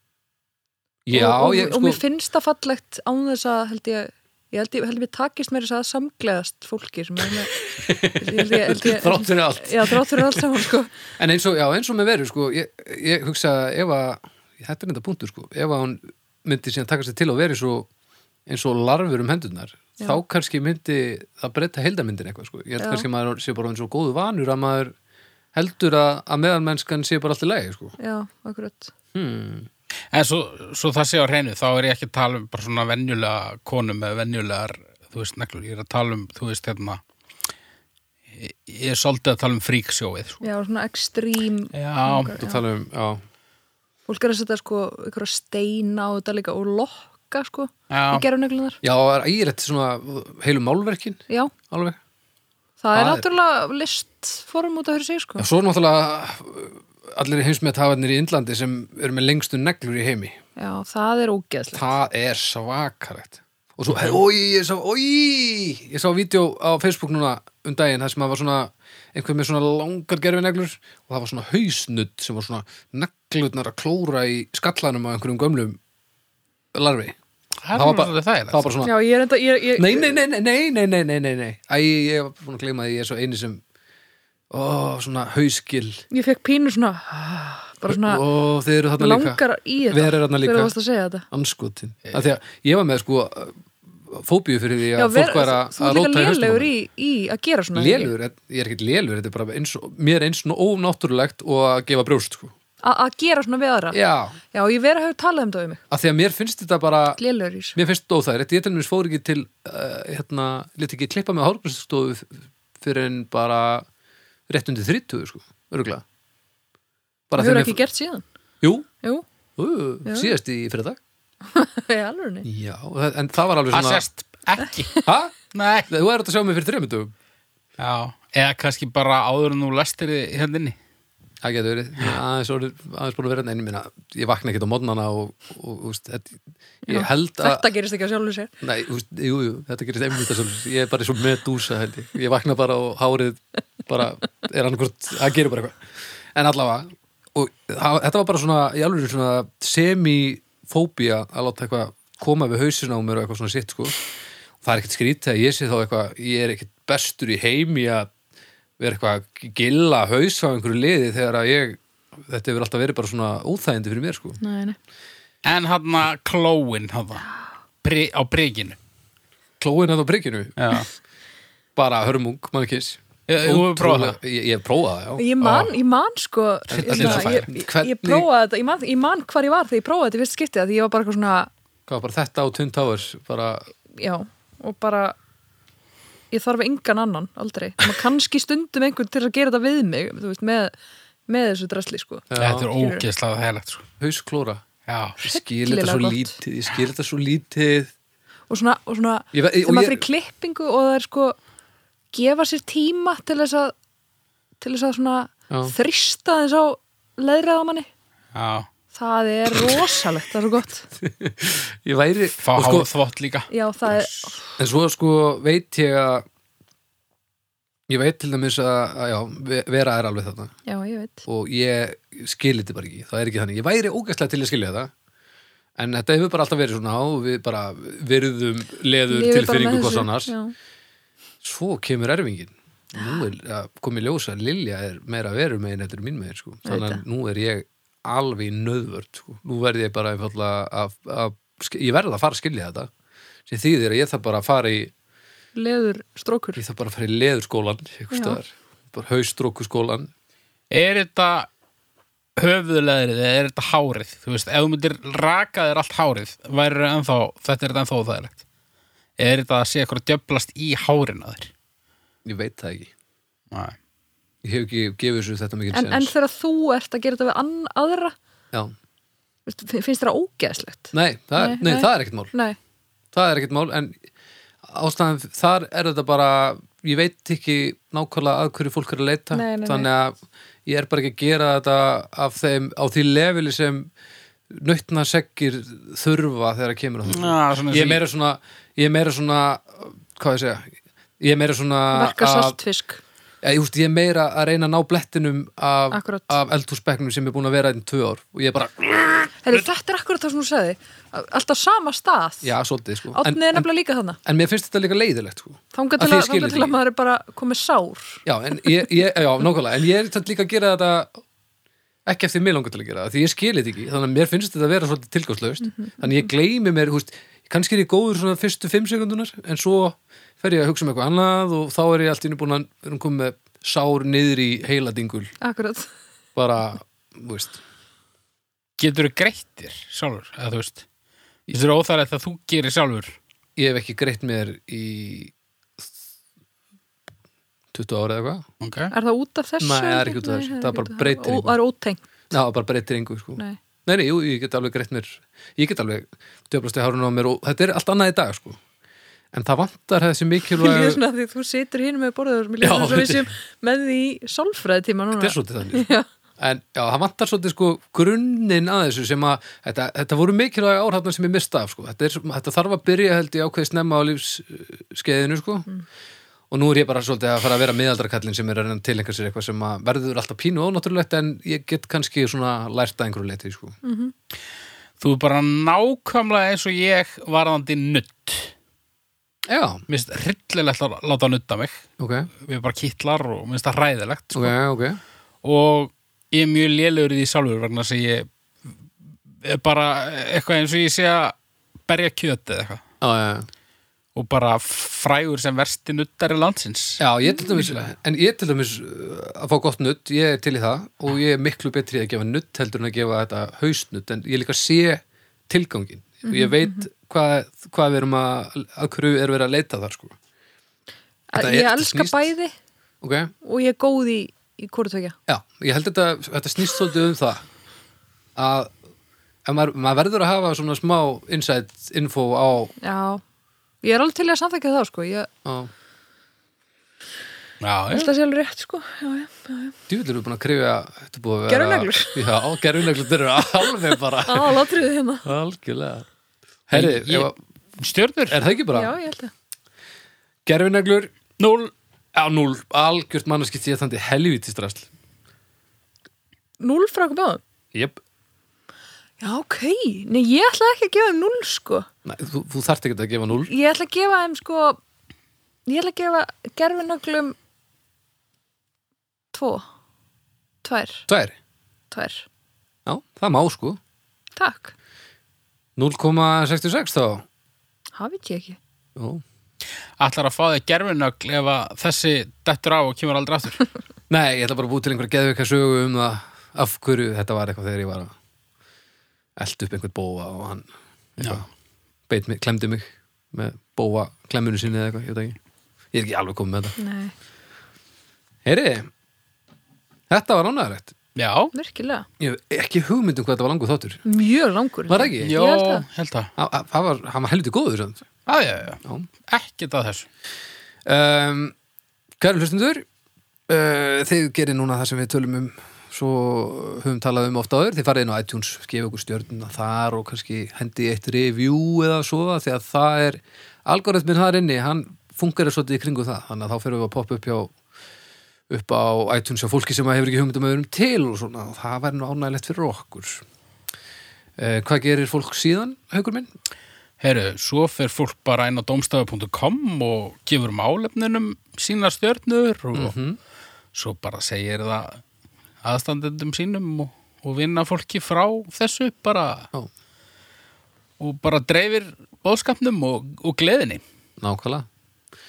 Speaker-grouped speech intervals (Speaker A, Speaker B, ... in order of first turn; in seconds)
Speaker A: 1.1-2.0, 7.6-17.9, 18.5-24.9, 25.5-27.9, 29.1-29.7, 42.4-43.2, 48.8-52.0, 52.9-53.2, 55.4-60.4, 61.7-75.8, 76.7-77.2, 77.7-78.9, 79.8-83.6, 84.5-86.0, 87.8-90.7, 91.3-96.7, 97.7-102.5, 103.9-104.3, 105.9-107.2, 107.7-113.9, 114.5-116.0, 117.3-117.8, 118.6-118.9, 119.6-121.0, 122.4-124.0, 125.0-125.3, 125.9-127.1, 131.4-137.6, 138.6-145.8, 146.3-154.0, 154.6-158.1, 158.8-164.4, 169.6-170.7, 171.8-175.3, 176.7-178.3, 181.9-183.7, 192.3-192.7, 194.0-194.6, 195.2-197.9, 199.3-200.0, 211.0-212.9, 214.6-216.2, 217.9-220.5, 221.2-224.9, 225.8-230.3, 231.4-242.9, 243.5-244.9, 246.6-250.1, 262.2-262.9, 264.4-266.1, 270.9-272.3, 273.1-274.0, 274.6-283.9, 284.5-292.6, 293.4-299.6, 302.4-303.7, 304.2-306.8, 308.2-311.2, 312.1-325.3, 326.3-327.6, 333.6-335.3, 337.7-338.4, 339.6-341.6, 342.3-348.6, 349.3-351.0, 352.6-353.3, 355.1-355.9, 356.4-365.7, 366.5-373.8, 379.5-379.8, 382.0-382.3, 384.3-385.0, 393.0-393.5, 397.0-410.1, 411.3-412.3, 413.0-413.3, 415.3-417.4, 418.4-418.7, 419.4-422.7, 425.4-425.7, 429.9-434.6, 435.2-436.1, 436.7-437.4, 438.3-438.9, 440.4-441.1, 442.1-444.9, 447.7-448.0, 452.0-453.5, 461.1-461.3, 462.9-463.8, 465.8-467.2, 468.9-469.2, 474.1-478.1, 479.4-481.4, 482.1-485.4, 485.9-486.8, 488.4-488.9, 490.1-490.9, 492.2-494.0, 494.9-495.3, 496.4-498.1, 500.8-501.5, 502.2-502.8, 503.5-517.5, 518.5-523.2, 524.4-526.3, 532.7-533.2, 544.2-544.6
Speaker B: 1.1-7.5, 8.0-10.9, 22.8-23.1, 28.0-28.9, 40.4-42.6, 44.1-48.8, 52.8-55.5, 60.6-61.9, 78.8-80.2, 86.1-88.2, 89.0-91.2, 95.0-98.1, 102.8-104.0, 104.5-105.8, 107.2-107.8, 117.3-118.2, 120.0-120.3, 121.5-122.5, 136.9-138.5, 164.4-164.8, 175.2-181.5, 183.9-185.2, 186.3-190.7, 191.3-193.0, 195.2-196.4, 198.5-201.4, 202.1-203.7, 204.6-207.9, 208.9-210.9, 213.5-214.4, 220.7-221.2, 229.1-230.5, 236.7-237.0, 245.5-246.6, 248.1-248.4, 265.7-268.1, 269.5-272.6, 279.3-279.9, 291.9-293.0, 295.9-296.4, 299.4-302.5, 303.1-304.2, 305.7-308.8, 315.6-316.2, 325.4-325.9, 338.9-342.0, 350.5-356.1, 373.8-374.1, 406.2-406.8, 411.3-412.5, 413.4-415.1, 422.8-423.2, 423.8-425.3, 427.9-429.7, 431.5-432.2, 434.2-435.3, 438.7-439.3, 446.6-447.4, 449.2-451.9, 453.3-454.8, 455.7-457.3, 459.3-459.6, 460.6-461.1, 461.9-462.2, 464.4-464.7, 467.9-468.6, 486.8-487.1, 491.5-492.1, 494.0-495.9
Speaker C: 30.1-37.0, 38.3-40.4, 41.7-42.3, 47.9-48.2, 77.6-78.7, 123.7-125.9, 127.8-130.8, 165.4-167.3, 167.8-168.8, 170.6-170.9, 173.3-174.2, 175.4-175.7, 176.8-177.4, 192.3-193.8, 194.9-195.2, 208.3-208.7, 212.4-214.1, 250.7-251.5, 252.4-258.4, 259.2-261.5, 263.5-263.8, 287.1-288.0, 328.8-330.8, 331.5-333.1, 338.6-338.9, 375.0-378.5, 379.9-381.8, 382.4-384.5, 385.4-388.3, 389.4-391.3, 391.9-392.8, 394.1-397.0, 427.6-428.1, 436.7-438.4, 441.4-441.7, 470.0-473.6, 481.2-481.4, 491.1-491.5, 495.2-496.3, 498.3-500.1, 527.0-532.9, 533.7-535.0, 535.6-539.5, 541.0-543.8